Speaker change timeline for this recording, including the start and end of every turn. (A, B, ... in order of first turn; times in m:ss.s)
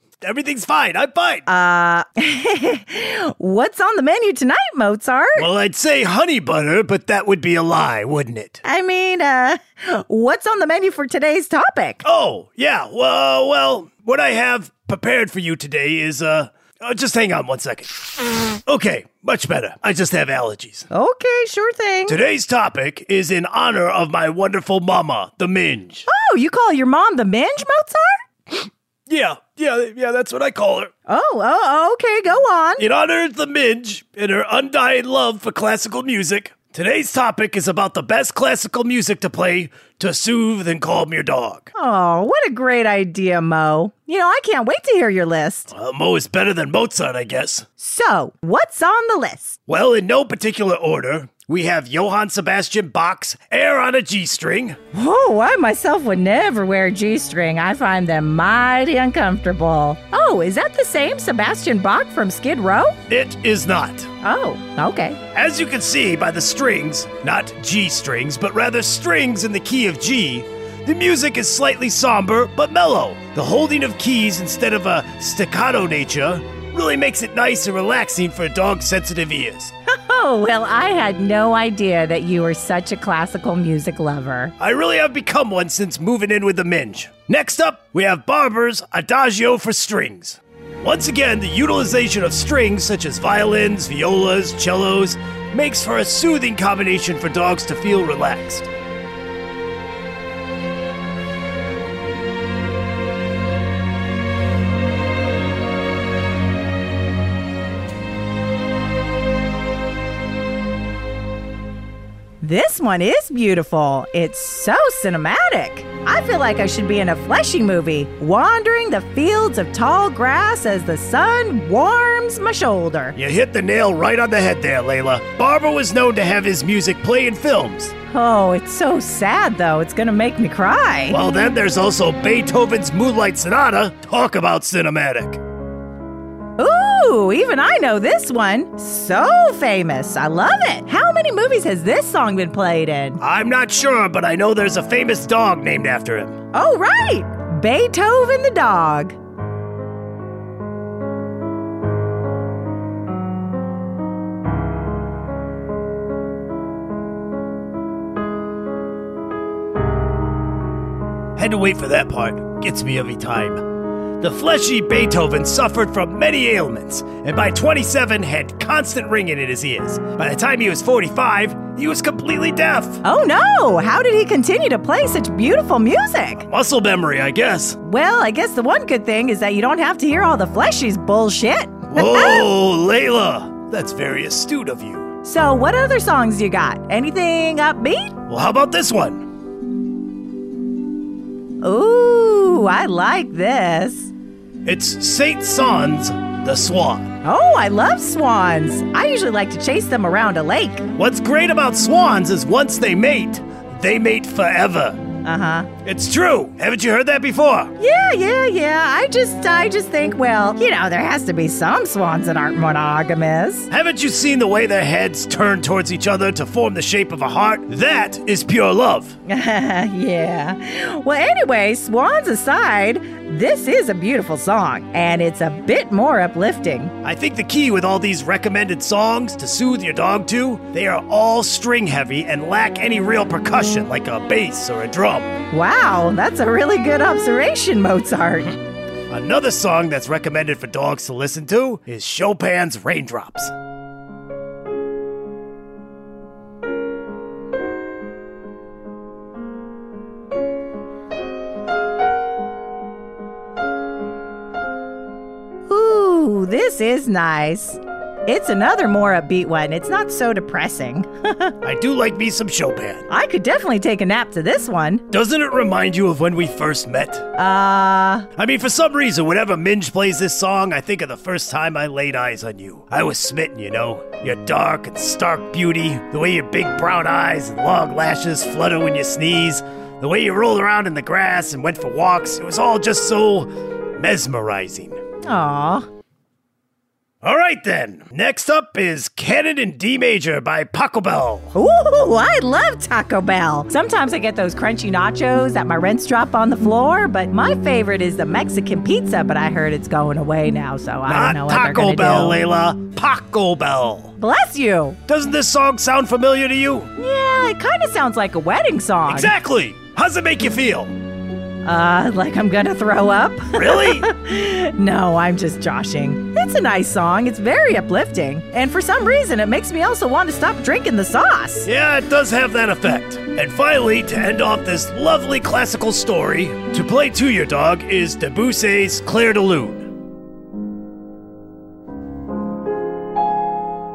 0:00.2-0:01.4 A
0:01.5-0:05.5 B
0:05.4-0:08.6 A
0:08.6-0:12.0 B
0:12.0-0:20.9 A
0:20.9-0:22.2 B
0:22.1-0:26.1 A
0:26.1-0:28.2 B
0:29.1-0:30.9 A
0:31.1-0:32.8 B
0:32.8-0:41.7 A
0:41.7-0:45.7 B
0:45.7-0:47.6 A
0:47.8-0:49.6 B
0:49.7-0:54.8 A
0:54.9-1:03.0 B
1:03.1-1:04.1 A
1:04.2-1:05.2 B
1:05.3-1:19.7 A
1:19.9-1:24.5 B
1:24.6-1:38.7 A
1:52.4-2:03.1 B
2:03.2-2:07.9 A
2:08.1-2:11.2 B
2:11.1-2:15.4 A
2:16.6-2:23.2 B
2:23.2-2:26.4 A
2:26.5-2:29.2 B
2:41.4-2:43.6 A
2:44.2-2:53.0 A
2:53.0-2:56.5 B
2:56.5-2:57.8 A
2:57.8-3:02.5 B
3:01.9-3:05.1 A
3:05.2-3:08.1 B
3:08.3-3:09.3 A
3:11.6-3:14.1 B
3:14.6-3:17.1 A
3:17.2-3:20.9 B
3:21.0-3:25.0 A
3:25.2-3:25.7 B
3:25.8-3:27.7 A
3:27.8-3:33.7 B
3:33.7-3:39.1 A
3:39.3-3:46.9 B
3:47.0-3:55.3 A
3:55.5-3:58.6 B
3:59.1-4:03.5 A
4:15.7-4:21.5 B
4:21.6-4:23.0 A
4:23.1-4:25.0 B
4:25.1-4:27.3 A
4:27.4-4:28.3 B
4:28.4-4:45.0 A
4:45.2-4:45.9 B
4:47.2-4:51.5 A
4:51.5-5:02.4 B
5:01.1-5:04.1 A
5:04.2-5:05.0 B
5:05.1-5:06.9 A
5:07.0-5:09.3 B
5:09.0-5:10.9 A
5:11.6-5:21.7 B
5:13.5-5:14.1 A
5:21.6-5:29.9 A